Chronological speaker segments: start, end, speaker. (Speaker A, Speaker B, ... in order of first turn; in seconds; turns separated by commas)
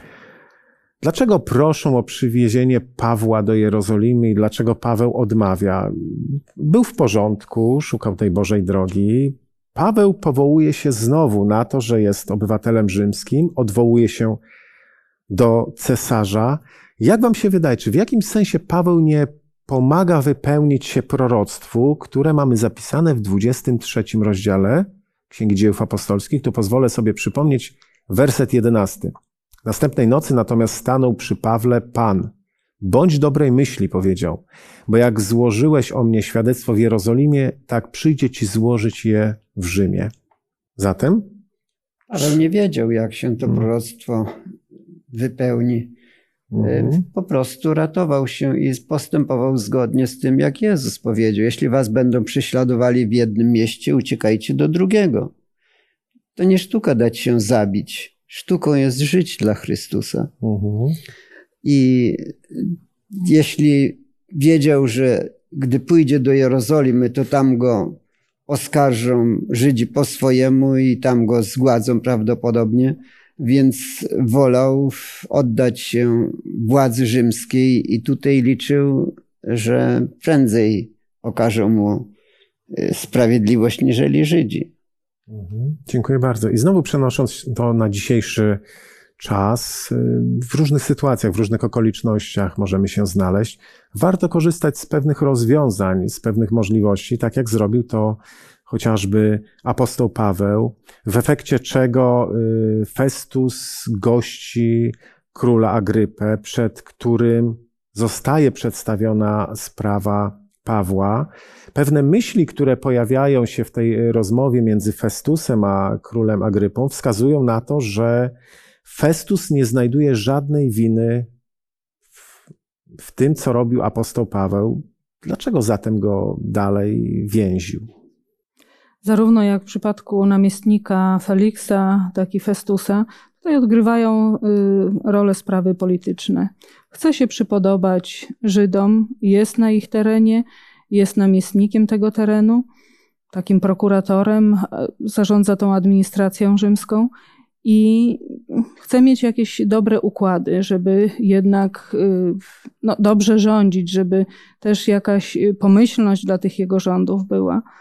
Speaker A: 1.0-14.4, Speaker A: 15.3-29.1, Speaker A: 29.6-40.1, Speaker A: 40.8-41.3, Speaker B: 42.1-44.3, Speaker B: 45.1-45.9, Speaker A: 46.5-47.0, Speaker B: 46.6-55.3, Speaker B: 56.4-60.3, Speaker A: 60.4-61.0, Speaker B: 61.6-82.1, Speaker B: 82.7-84.7, Speaker A: 85.3-88.6, Speaker A: 89.2-118.3, Speaker A: 118.8-121.3, Speaker A: 123.0-127.9, Speaker C: 129.0-142.6, Speaker C: 143.3-147.1, Speaker C: 147.6-157.6